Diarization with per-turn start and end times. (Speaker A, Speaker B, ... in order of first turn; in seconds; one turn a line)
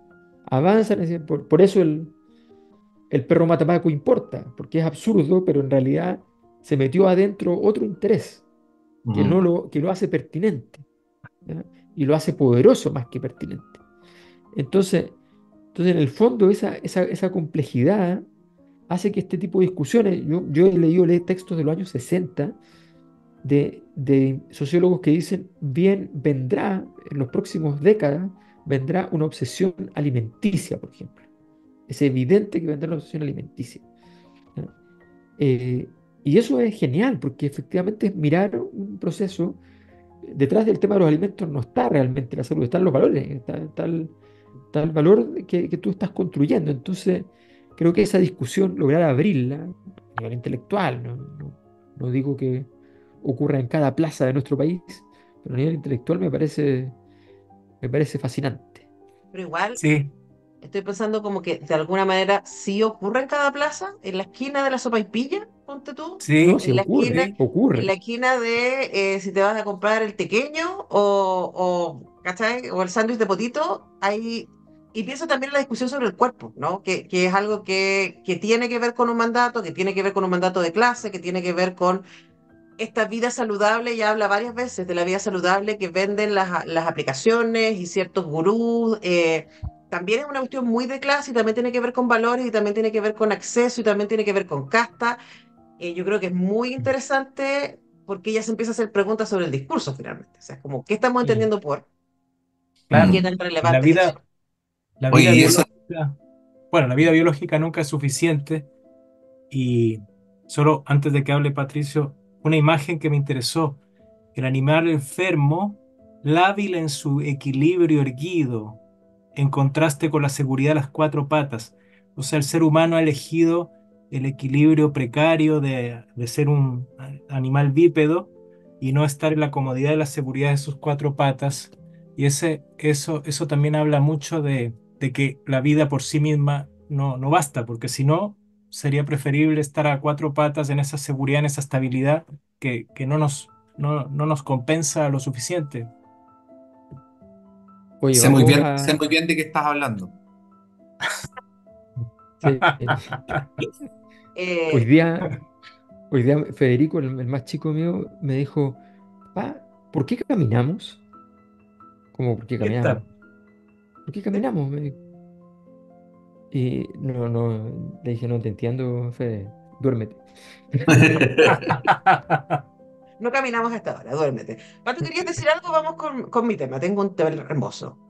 Speaker A: 0.5-2.1
Speaker A: 3.1-8.4
Speaker B: 9.0-9.4
Speaker A: 9.1-10.8
Speaker A: 11.4-13.8
Speaker A: 14.5-15.2
Speaker A: 15.7-18.2
Speaker A: 18.9-22.5
Speaker A: 23.4-31.2
Speaker A: 31.9-33.8
Speaker A: 35.4-39.6
Speaker A: 40.2-44.1
Speaker A: 44.7-52.7
Speaker A: 53.2-56.9
Speaker A: 57.8-58.8
Speaker C: 59.3-59.8
Speaker D: 59.8-60.1
Speaker C: 60.6-82.0
Speaker D: 66.2-67.3
Speaker A: 66.4-67.9
Speaker C: 82.8-95.2
Speaker C: 95.8-101.8
Speaker D: 101.2-101.5
Speaker D: 102.9-104.2
Speaker B: 102.9-103.2
Speaker C: 103.1-104.1
Speaker D: 105.0-106.2
Speaker B: 105.1-105.7
Speaker D: 106.7-108.7
Speaker D: 109.5-113.8
Speaker D: 114.3-118.8
Speaker D: 119.3-145.9
Speaker A: 148.0-149.0
Speaker B: 148.1-150.2
Speaker A: 152.4-153.1
Speaker D: 152.4-153.4
Speaker C: 154.3-154.9
Speaker A: 154.7-155.3
Speaker A: 156.1-158.8
Speaker A: 159.3-161.0
Speaker A: 162.1-163.0
Speaker D: 162.6-163.1
Speaker A: 164.1-164.9
Speaker A: 166.5-170.2
Speaker B: 170.9-171.8
Speaker D: 171.7-172.6
Speaker C: 173.2-177.9